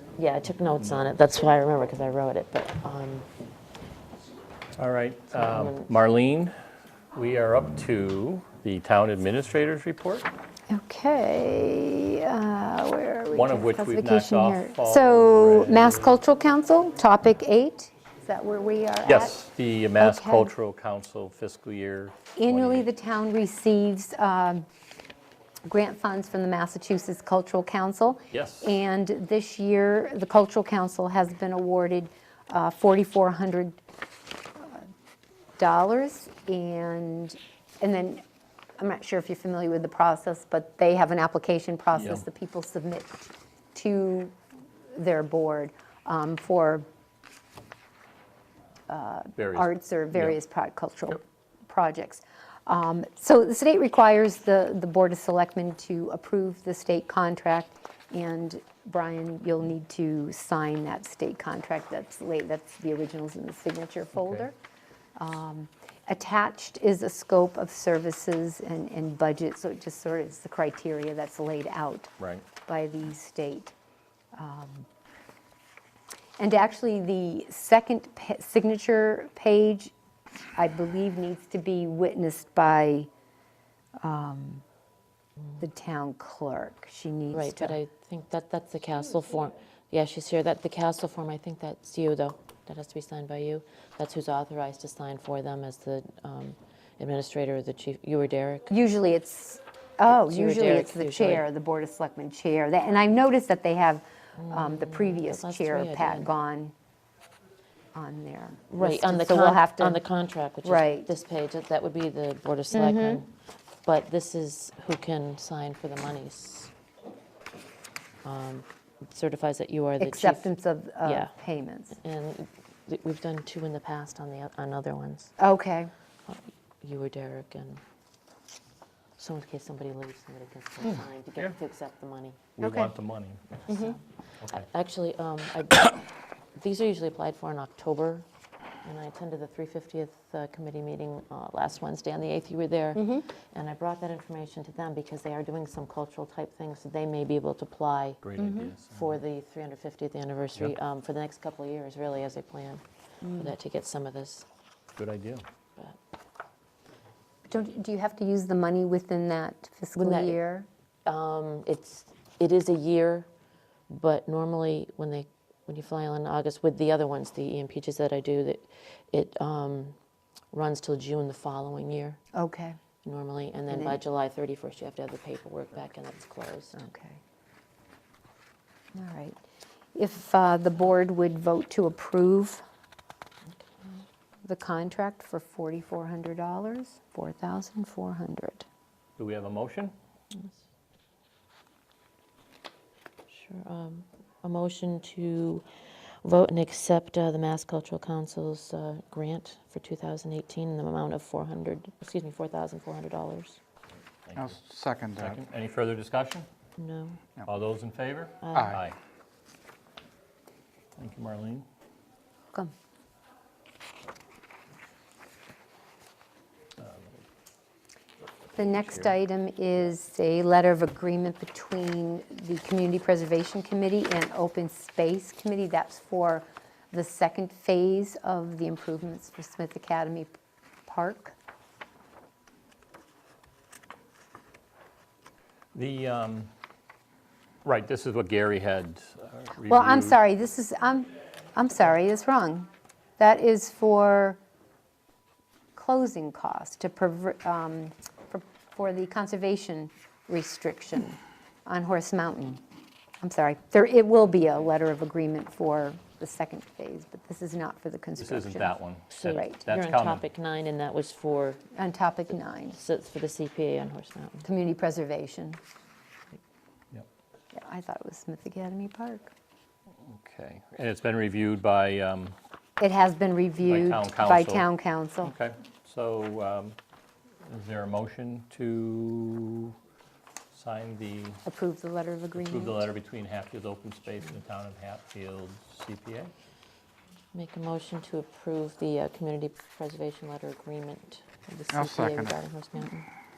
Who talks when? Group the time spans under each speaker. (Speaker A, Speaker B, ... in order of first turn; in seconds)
Speaker A: 0.1-3.3, 5.3-5.9, 87.3-98.7, 100.1-101.4, 104.4-106.3, 108.7-113.3, 113.8-116.7, 118.2-120.5, 121.0-121.3, 121.9-125.3, 126.3-127.8, 129.2-132.4, 133.7-134.0, 134.5-138.2, 138.8-148.2, 148.9-154.4, 160.0-160.4, 161.1-163.3, 163.9-169.9, 170.5-172.2, 173.0-176.7, 193.3-195.6, 196.2-203.6, 206.8-207.2, 208.4-208.8, 259.5-261.6, 262.7-264.5, 287.3-293.1
Speaker B: 4.8-6.5, 7.1-10.3, 13.3-16.1, 19.0-22.9, 28.3-28.7, 41.9-42.2, 49.4-50.4, 64.2-64.5, 72.2-72.5, 130.8-131.6, 132.6-133.6, 134.4-134.7, 148.2-149.2, 155.0-155.4, 189.2-189.9, 204.2-204.6, 205.2-206.5, 207.4-209.0, 211.0-211.6, 216.8-217.2, 218.8-219.2, 235.7-236.5, 237.6-240.2, 258.2-260.2, 270.0-272.4, 273.6-274.7, 275.2-276.8, 277.4-279.7, 280.5-281.4, 282.4-286.3
Speaker C: 10.7-19.4, 20.0-20.5, 22.4-24.6, 25.7-33.8, 34.5-34.8, 35.6-38.2, 38.8-44.4, 44.9-46.9, 48.9-64.5, 65.2-72.1, 72.6-73.7, 74.3-74.8, 76.4-79.9, 80.5-83.1, 84.0-84.6, 85.6-87.8, 98.7-106.7, 107.9-110.0, 110.6-111.1, 112.7-113.2, 120.0-122.0, 125.4-125.9, 132.6-132.9, 133.7-134.0, 142.9-143.3, 148.4-148.7, 153.2-153.5, 157.5-160.7, 172.3-172.8, 173.7-174.0, 176.7-177.2, 178.9-179.4, 179.9-182.6, 184.4-188.7, 218.6-230.3, 230.9-231.3, 239.7-244.4, 245.8-252.6, 253.2-259.6, 261.7-262.8, 264.4-265.6, 267.5-269.3, 272.8-275.3, 281.4-282.8
Speaker D: 204.3-205.4, 208.5-208.8, 291.7-292.4